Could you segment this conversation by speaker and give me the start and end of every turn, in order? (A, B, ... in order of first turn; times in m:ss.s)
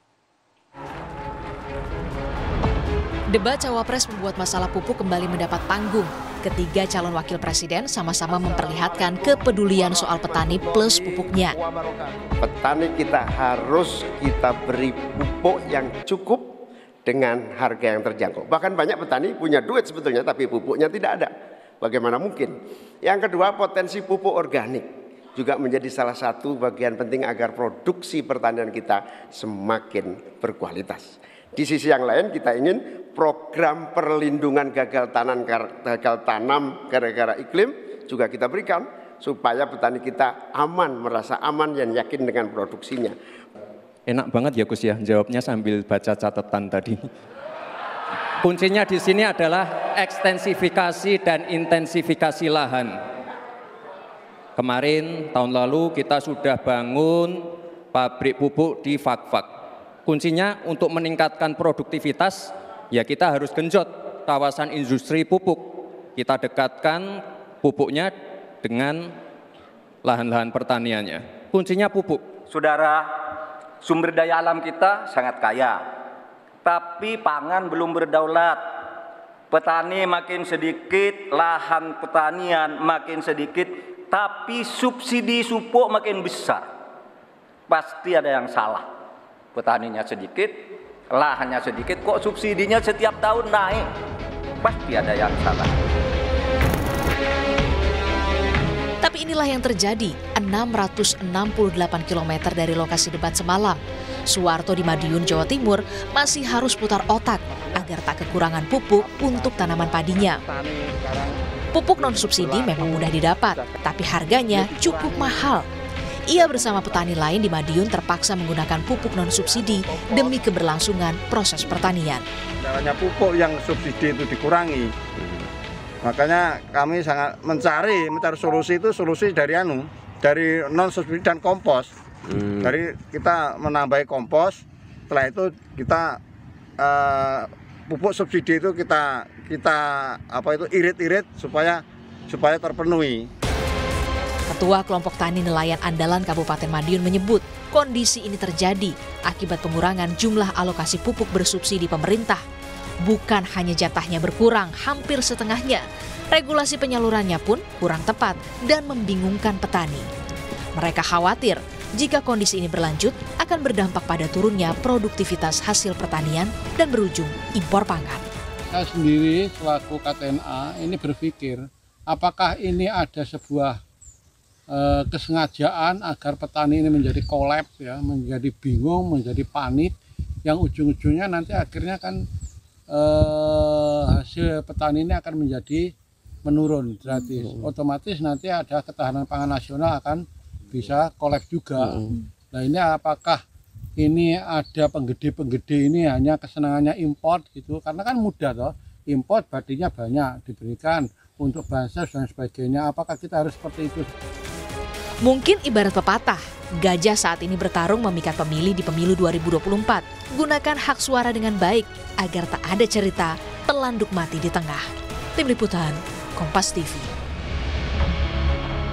0:03.3-0:11.6 A
0:08.3-0:16.5 B
0:17.0-0:43.2 B
0:44.1-0:47.0 C
0:48.4-0:53.0 C
0:54.6-0:59.5 C
1:00.0-1:09.1 C
1:10.0-1:12.3 C
1:12.5-1:13.1 D
1:13.8-1:15.8 D
1:16.6-1:18.6 D
1:19.5-1:26.7 D
1:27.7-1:28.9 D
1:29.5-1:33.9 D
1:34.6-1:35.7 D
1:39.0-1:50.4 A
1:51.7-1:55.6 A
1:56.3-2:02.2 A
2:02.6-2:04.9 E
2:06.0-2:11.9 E
2:12.6-2:16.2 E
2:16.8-2:23.3 E
2:24.5-2:32.4 A
2:33.0-2:40.1 A
2:40.8-2:48.2 A
2:48.7-2:53.8 F
2:54.7-2:59.9 F
3:00.4-3:02.2 F
3:02.9-3:05.9 F
3:06.4-3:13.4 F
3:14.0-3:24.1 F
3:25.2-3:34.8 A
3:35.4-3:37.1 A